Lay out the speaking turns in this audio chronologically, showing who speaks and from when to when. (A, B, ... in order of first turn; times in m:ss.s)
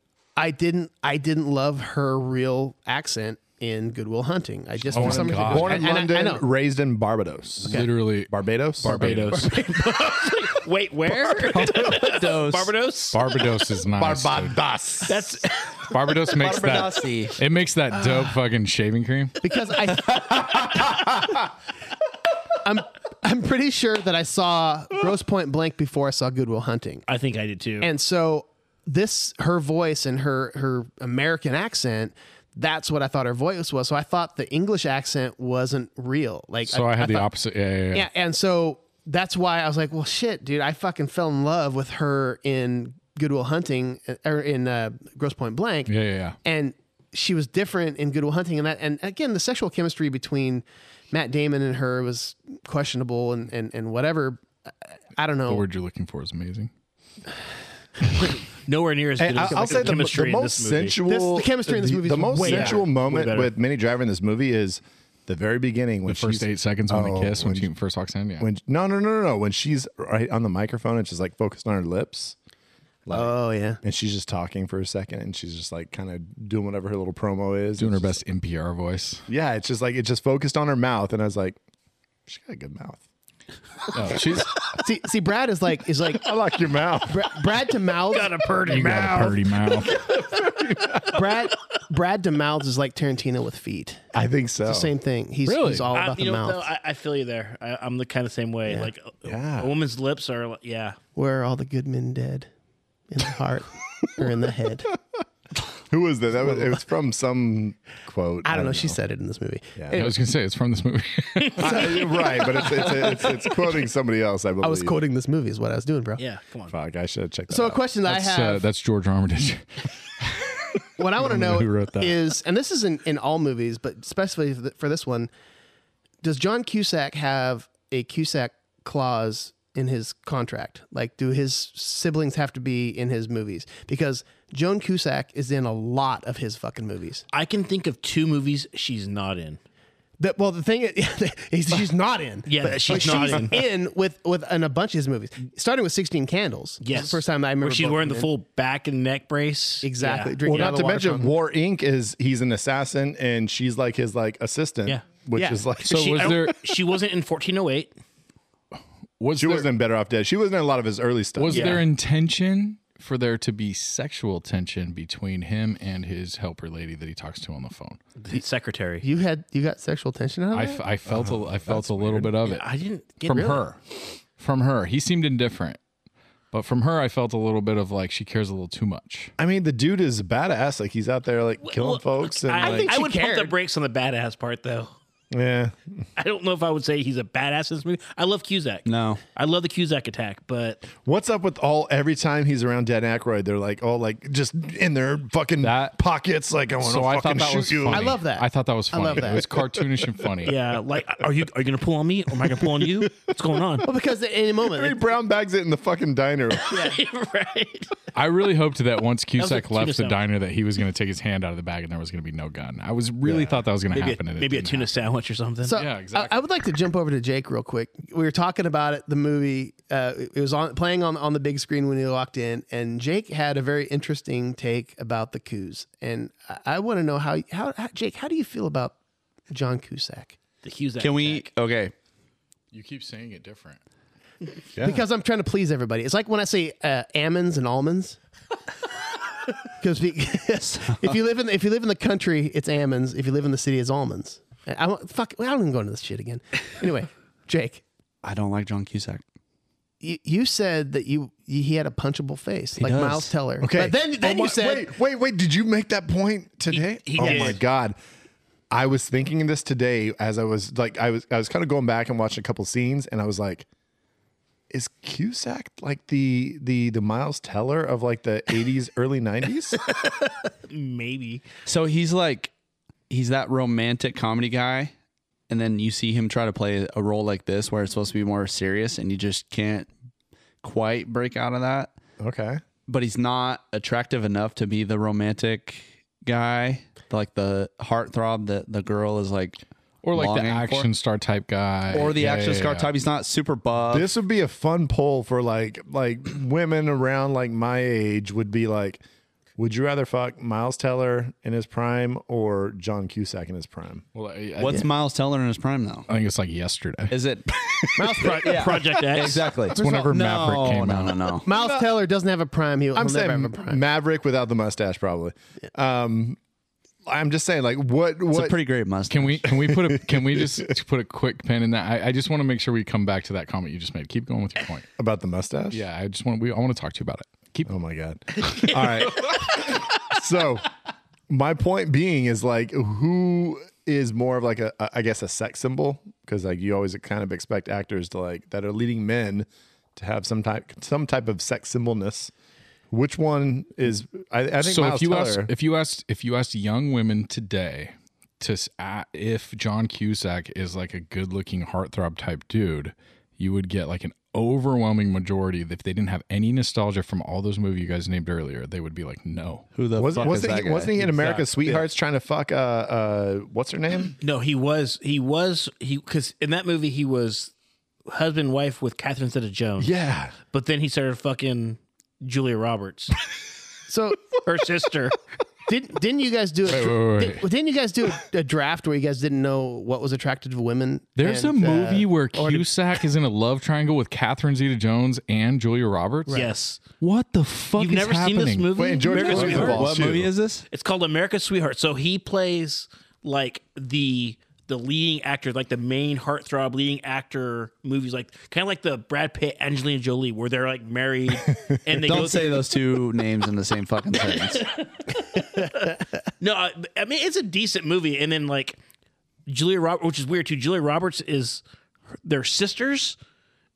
0:00.4-0:06.4 A
0:04.9-0:05.8 B
0:04.9-0:09.3 C
0:07.6-0:09.5 B
0:08.8-0:13.3 D
0:11.5-0:12.7 E
0:13.1-0:14.6 B
0:14.0-0:15.4 C
0:15.0-0:15.9 D
0:15.9-0:19.4 B
0:16.4-0:17.4 E
0:19.4-0:20.7 A
0:22.6-0:27.0 A
0:27.1-0:27.9 D
0:27.8-0:37.3 A
0:36.7-0:38.1 B
0:37.9-0:45.9 A
0:45.9-0:46.4 B
0:46.4-0:54.4 A
0:55.2-0:55.6 A
0:55.5-0:56.7 B
0:58.4-1:01.0 D
0:59.2-1:07.7 C
0:59.4-0:59.8 A
1:01.0-1:02.8 A
1:02.4-1:03.5 D
1:06.1-1:08.5 B
1:08.4-1:12.4 C
1:13.0-1:18.2 C
1:13.1-1:13.8 A
1:17.8-1:19.2 B
1:19.3-1:21.6 C
1:22.3-1:23.0 C
1:23.9-1:24.6 B
1:24.7-1:26.2 A
1:26.1-1:27.4 C
1:27.1-1:28.3 A
1:28.1-1:29.9 D
1:28.6-1:30.1 B
1:30.3-1:31.1 C
1:31.1-1:34.0 A
1:34.1-1:34.9 C
1:34.6-1:36.7 A
1:35.4-1:35.9 B
1:35.9-1:41.0 D
1:39.2-1:39.8 C
1:41.1-1:42.5 A
1:43.1-1:44.9 A
1:45.9-1:49.0 C
1:48.4-1:50.2 A
1:49.8-1:50.0 C
1:49.9-1:51.9 B
1:51.4-1:52.0 D
1:51.6-1:55.0 C
1:52.4-1:52.6 A
1:54.6-1:56.2 A
1:56.2-1:56.7 D
1:56.7-1:57.8 C
1:57.5-1:58.6 A
1:58.0-2:02.2 B
2:01.0-2:05.3 A
2:06.2-2:17.2 A
2:17.3-2:19.6 D
2:20.2-2:28.3 A
2:22.4-2:23.6 D
2:23.0-2:23.3 C
2:26.8-2:30.7 D
2:29.8-2:31.3 A
2:30.4-2:36.6 C
2:35.3-2:35.6 A
2:35.8-2:37.9 D
2:35.8-2:36.6 B
2:39.2-2:39.7 B
2:39.3-2:41.8 C
2:41.4-2:48.0 B
2:41.5-2:41.8 D
2:48.2-2:49.0 D
2:49.0-2:50.8 A
2:50.5-2:52.7 B
2:51.0-2:52.3 C
2:52.4-2:53.6 D
2:53.2-2:53.8 B
2:53.3-2:53.6 A
2:54.4-2:55.8 B
2:56.5-2:59.3 B
2:59.4-3:02.9 C
3:01.6-3:04.9 D
3:02.6-3:03.5 A
3:05.3-3:06.0 C
3:06.2-3:10.9 D
3:08.8-3:09.2 E
3:11.0-3:18.2 C
3:15.6-3:16.0 B
3:16.8-3:20.6 B
3:17.9-3:19.4 A
3:20.4-3:23.9 D
3:23.8-3:25.0 A
3:24.6-3:26.7 C
3:26.6-3:27.9 D
3:26.7-3:27.0 A
3:28.1-3:34.9 B
3:29.4-3:30.2 D
3:33.2-3:33.6 C
3:33.9-3:35.8 D
3:35.6-3:49.0 A
3:35.7-3:36.4 B
3:49.5-3:50.4 A
3:50.6-3:51.5 D
3:51.0-3:51.9 E
3:52.7-3:53.8 B
3:54.8-3:55.0 C
3:54.8-3:58.2 A
3:59.8-4:07.8 A
4:00.7-4:01.1 E
4:08.2-4:09.2 E
4:10.0-4:14.9 A
4:12.8-4:13.3 E
4:13.6-4:18.0 C
4:16.7-4:17.6 D
4:17.2-4:17.6 A
4:18.7-4:23.6 C
4:24.7-4:29.8 C
4:30.6-4:31.4 D
4:31.6-4:32.5 E
4:33.1-4:34.9 E
4:35.5-4:39.9 E
4:40.6-4:41.9 E
4:42.2-4:42.6 C
4:42.9-4:49.6 E
4:50.0-4:52.9 B
4:50.1-4:50.9 E
4:51.9-4:54.1 E
4:53.9-4:59.0 C
4:59.6-5:04.0 C
5:04.1-5:04.9 B
5:04.6-5:06.1 E
5:06.1-5:07.1 B
5:07.1-5:07.5 E
5:08.0-5:08.7 A
5:08.2-5:09.5 D
5:08.2-5:11.5 E
5:09.7-5:10.1 A
5:09.8-5:11.2 B
5:11.4-5:13.8 A
5:11.5-5:11.9 C
5:12.9-5:16.4 C
5:17.0-5:18.6 C
5:18.3-5:19.5 E
5:19.1-5:24.9 B
5:19.5-5:20.7 C
5:25.0-5:25.8 C
5:25.7-5:27.7 B
5:27.6-5:30.7 C
5:31.3-5:42.3 C
5:42.9-5:45.5 C
5:44.6-5:59.7 B
5:59.7-6:01.8 E
6:00.0-6:04.1 C
6:04.2-6:07.5 D
6:08.1-6:09.9 D
6:09.8-6:10.4 C
6:10.5-6:13.2 D
6:13.9-6:14.2 A
6:14.4-6:15.2 D
6:15.7-6:22.6 A
6:16.7-6:17.5 B
6:21.2-6:26.4 B
6:26.3-6:26.8 D
6:27.0-6:28.7 B
6:27.8-6:30.0 D
6:28.7-6:30.3 C
6:29.2-6:30.6 E
6:30.7-6:42.8 D
6:42.0-6:44.7 E
6:44.2-6:48.8 D
6:49.5-6:51.6 D
6:52.2-6:53.2 D